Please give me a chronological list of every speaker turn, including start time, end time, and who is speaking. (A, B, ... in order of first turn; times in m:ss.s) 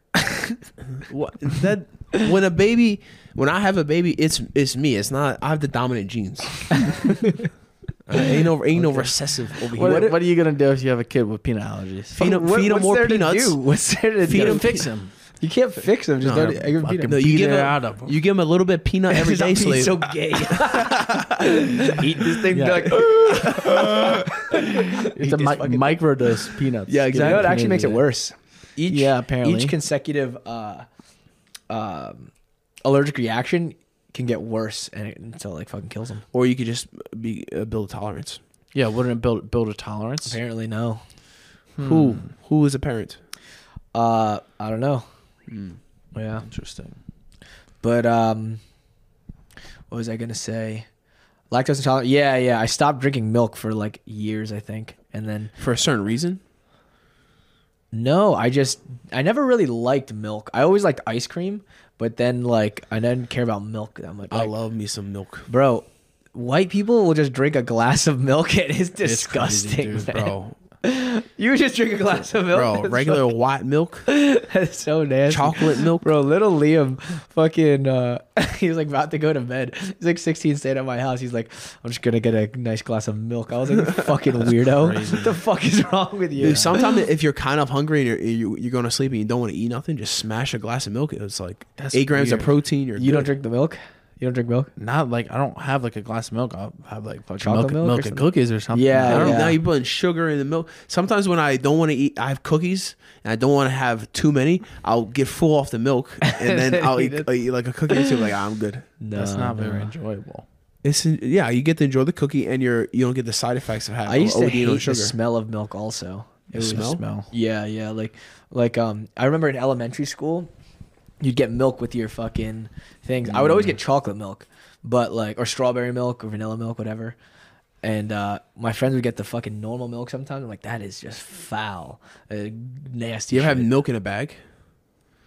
0:00.9-0:07.4 A
0:08.0-0:10.0 A
0:08.7-0:12.2 B
0:09.5-0:10.2 C
0:12.2-0:14.9 A
0:12.2-0:17.4 C
0:14.3-0:15.1 B
0:16.2-0:21.0 A
0:16.3-0:18.1 B
0:19.1-0:26.0 C
0:22.5-0:28.0 B
0:26.9-0:27.5 A
0:27.1-0:30.8 C
0:28.9-0:29.8 B
0:31.7-0:32.3 C
0:32.8-0:36.2 C
0:36.3-0:38.4 A
0:38.7-0:40.4 B
0:40.2-0:41.0 C
0:41.8-0:42.3 B
0:41.8-0:43.2 A
0:43.9-0:45.0 C
0:45.5-0:45.8 A
0:46.1-0:46.4 C
0:46.4-0:47.0 B
0:47.8-0:48.6 C
0:49.9-0:50.9 C
0:51.5-0:55.5 C
0:55.6-0:56.4 A
0:57.9-1:04.5 C
1:04.3-1:05.5 A
1:05.5-1:10.3 C
1:09.0-1:10.2 B
1:10.0-1:10.6 A
1:10.8-1:13.2 C
1:12.4-1:14.1 A
1:14.1-1:26.9 C
1:15.3-1:16.1 A
1:24.6-1:25.4 B
1:26.4-1:33.3 A
1:31.8-1:32.4 B
1:32.1-1:34.7 C
1:34.8-1:39.6 B
1:37.4-1:39.6 C
1:39.0-1:48.9 A
1:46.3-1:47.3 C
1:49.0-1:49.9 C
1:49.1-1:50.4 B
1:50.8-1:55.2 A
1:54.0-2:00.5 C
1:56.5-1:57.0 A
1:56.5-1:57.3 B
2:01.2-2:07.2 C
2:03.2-2:03.7 B
2:07.8-2:13.7 C
2:13.3-2:14.4 A